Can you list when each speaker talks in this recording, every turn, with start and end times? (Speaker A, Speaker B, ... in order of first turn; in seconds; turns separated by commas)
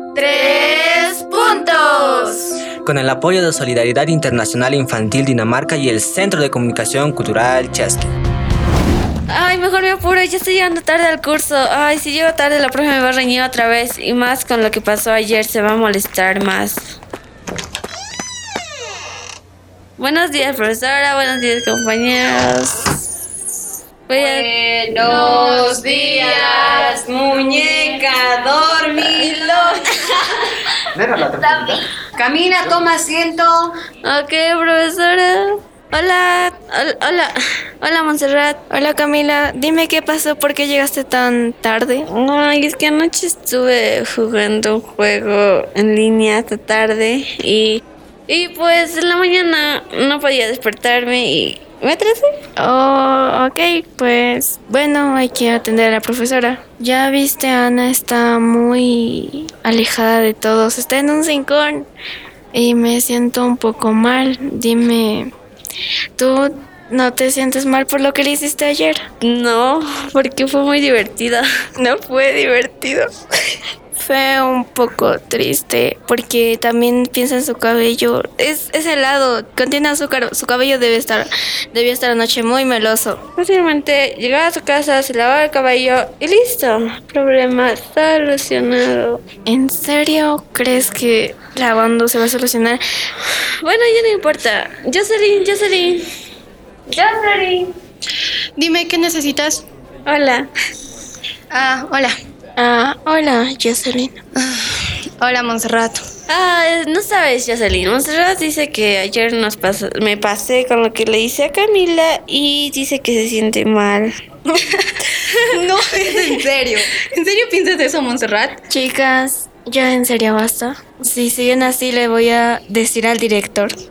Speaker A: 0.2-0.7, Speaker B: 0.5-0.8, Speaker A: 1.2-2.3, Speaker C: 2.8-8.1, Speaker B: 9.3-17.0, Speaker B: 20.0-23.0, Speaker B: 24.1-24.5, Speaker D: 24.1-30.2, Speaker B: 25.0-26.9, Speaker B: 28.9-29.3, Speaker E: 29.3-29.8, Speaker D: 31.0-33.7, Speaker C: 31.1-31.7, Speaker B: 34.0-38.6, Speaker A: 38.7-42.1, Speaker B: 42.1-52.3, Speaker A: 52.6-61.9, Speaker A: 62.5-65.3, Speaker A: 66.2-69.0, Speaker B: 69.2-71.5, Speaker A: 71.8-73.1, Speaker A: 74.0-83.2, Speaker B: 83.4-89.2, Speaker A: 89.5-92.8, Speaker B: 93.6-96.0, Speaker B: 96.9-97.7, Speaker E: 98.6-99.7, Speaker B: 100.1-100.5, Speaker E: 101.5-102.1, Speaker A: 102.6-104.2, Speaker E: 104.4-106.0, Speaker B: 106.3-114.1, Speaker E: 114.5-114.9, Speaker E: 115.5-118.6, Speaker A: 118.7-123.8